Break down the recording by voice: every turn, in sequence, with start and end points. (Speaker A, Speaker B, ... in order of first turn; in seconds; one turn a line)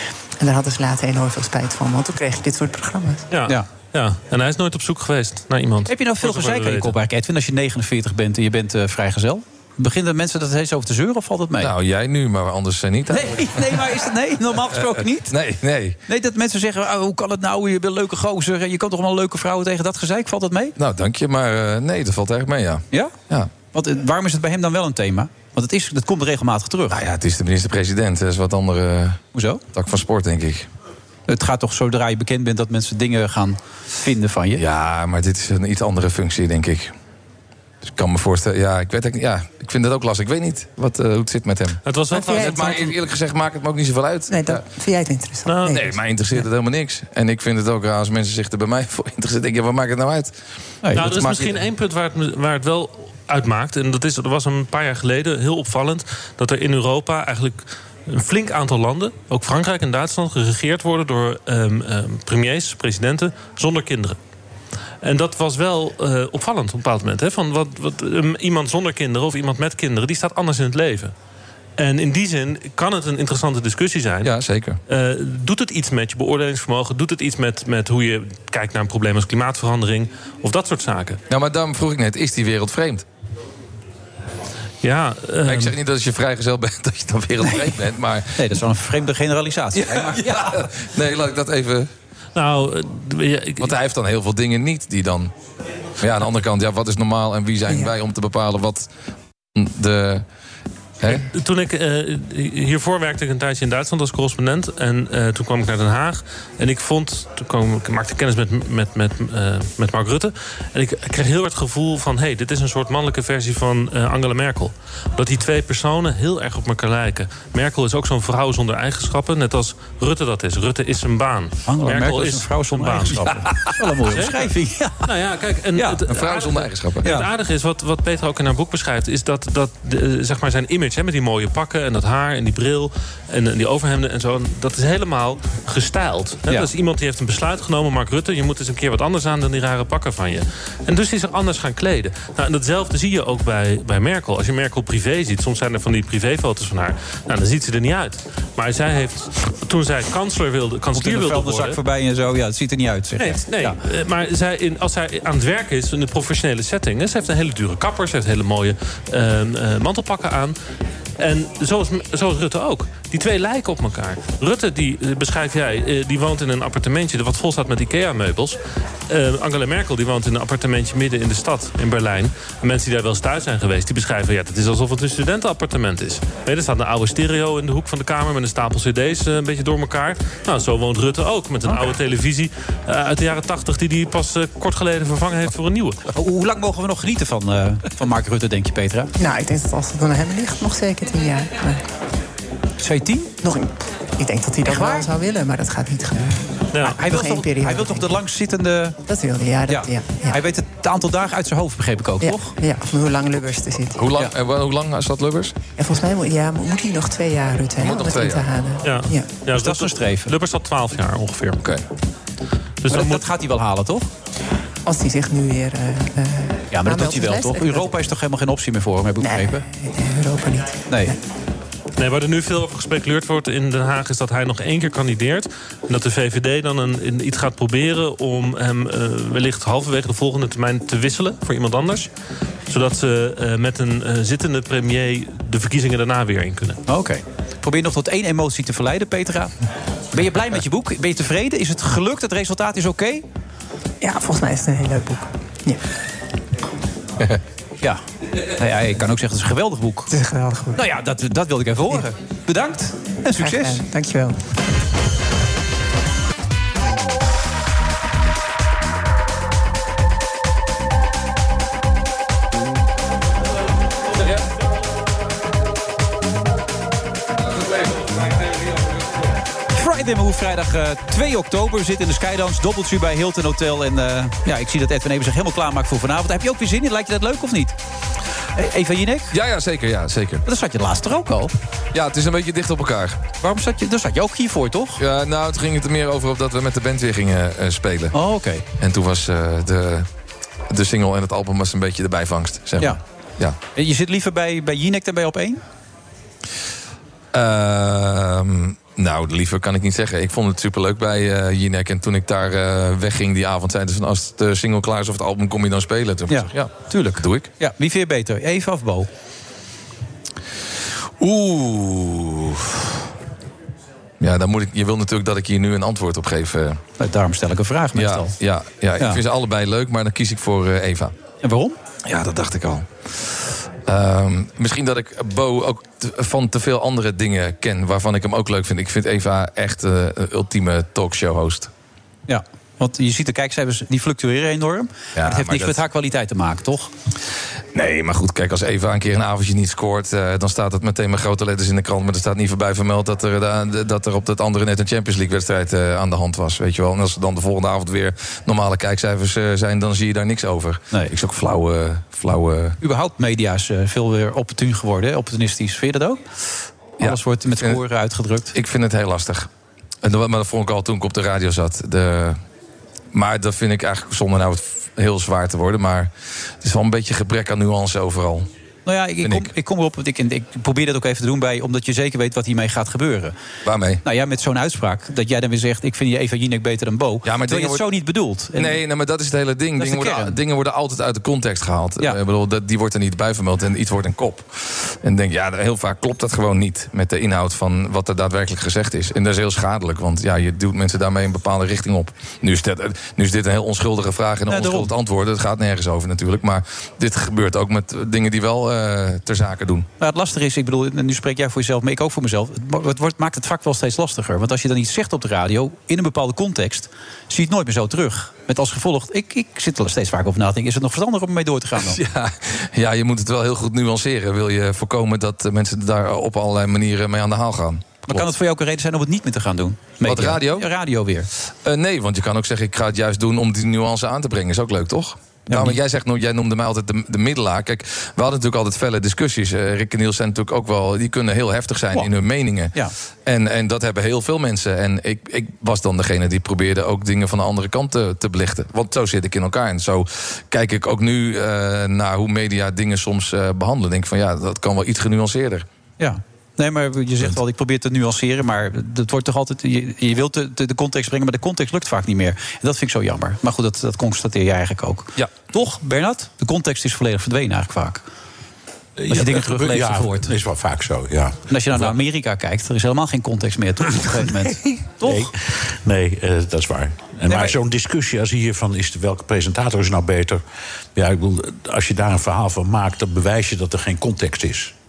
Speaker A: 0.4-3.2
Speaker B: 3.3-6.9
Speaker C: 5.9-11.7
Speaker D: 11.6-13.9
Speaker C: 13.1-15.3
Speaker D: 14.6-16.0
Speaker C: 16.1-20.7
Speaker D: 20.8-23.5
Speaker C: 23.7-27.0
Speaker D: 26.9-29.2
Speaker C: 29.3-29.6
Speaker D: 29.7-30.7
Speaker C: 31.3-34.6
Speaker D: 34.5-36.9
Speaker D: 37.8-44.6
Speaker B: 41.8-42.9
Speaker A: 42.1-42.7
Speaker A: 44.3-45.9
Speaker B: 45.5-45.8
Speaker D: 45.7-50.3
Speaker C: 50.8-51.5
Speaker D: 50.9-51.5
Speaker B: 50.9-64.2
Speaker B: 65.0-71.1
Speaker B: 71.8-74.3
Speaker D: 74.2-74.8
Speaker B: 74.9-81.2
Speaker D: 81.3-83.0
Speaker B: 84.8-85.7
Speaker D: 85.4-88.4
Speaker C: 87.4-87.7
Speaker C: 88.3-90.7
Speaker D: 89.7-91.9
Speaker B: 92.3-93.7
Speaker D: 93.6-95.3
Speaker D: 96.0-98.9
Speaker D: 99.5-100.2
Speaker B: 101.0-123.3
Speaker C: 121.7-125.1
Speaker B: 124.1-124.5
Speaker B: 125.0-151.8
Speaker C: 125.7-126.1
Speaker D: 126.1-127.0
Speaker C: 127.0-127.3
Speaker C: 150.9-153.8
Speaker B: 153.2-160.6
Speaker B: 161.2-168.6
Speaker B: 169.1-186.0
Speaker C: 181.6-181.9
Speaker C: 186.1-189.1
Speaker A: 189.2-191.8
Speaker C: 192.8-193.3
Speaker A: 193.4-198.2
Speaker C: 194.6-195.1
Speaker B: 196.7-197.0
Speaker C: 196.8-199.0
Speaker A: 199.0-200.4
Speaker C: 199.7-202.5
Speaker A: 202.2-204.0
Speaker D: 204.0-205.6
Speaker A: 205.7-209.4
Speaker D: 207.8-208.5
Speaker B: 208.8-211.6
Speaker C: 209.5-210.4
Speaker B: 212.8-213.2
Speaker C: 212.9-214.1
Speaker A: 214.8-217.9
Speaker C: 216.7-219.6
Speaker A: 219.2-221.2
Speaker C: 220.9-221.1
Speaker B: 222.0-232.1
Speaker B: 232.7-236.8
Speaker C: 236.8-239.5
Speaker C: 240.1-243.2
Speaker A: 244.0-245.8
Speaker C: 248.6-250.1
Speaker A: 250.1-250.8
Speaker C: 250.7-253.8
Speaker A: 253.3-254.4
Speaker C: 269.7-277.8
Speaker C: 278.6-279.3
Speaker D: 279.3-280.4
Speaker C: 280.4-281.5
Speaker D: 281.9-283.2
Speaker C: 283.4-285.0
Speaker D: 285.0-288.1
Speaker C: 288.1-288.6
Speaker D: 288.8-290.1
Speaker D: 290.7-293.6
Speaker C: 293.7-295.6
Speaker D: 297.3-307.5
Speaker C: 306.3-309.1
Speaker D: 311.2-312.7
Speaker D: 314.2-316.8
Speaker C: 317.0-318.3
Speaker D: 317.9-321.1
Speaker C: 321.4-321.8
Speaker D: 322.0-322.9
Speaker D: 323.9-331.7
Speaker C: 332.3-336.9
Speaker D: 335.1-335.8
Speaker D: 337.7-352.8
Speaker C: 352.8-356.2
Speaker C: 357.0-358.5
Speaker D: 357.0-357.8
Speaker D: 358.5-359.5
Speaker D: 360.0-362.4
Speaker D: 363.1-368.5
Speaker C: 368.9-373.3
Speaker D: 369.2-369.5
Speaker D: 373.6-374.0
Speaker C: 374.0-378.8
Speaker D: 377.2-377.8
Speaker D: 378.6-399.9
Speaker C: 379.8-380.4
Speaker C: 394.5-394.9
Speaker C: 400.0-412.0
Speaker D: 411.8-418.3
Speaker C: 418.1-421.3
Speaker D: 420.0-420.7
Speaker D: 421.6-432.7
Speaker C: 425.5-425.8
Speaker D: 433.2-445.6
Speaker C: 446.0-458.0
Speaker E: 459.0-461.9
Speaker C: 459.1-460.3
Speaker C: 461.5-465.3
Speaker E: 465.0-470.4
Speaker C: 467.3-467.6
Speaker E: 470.9-474.7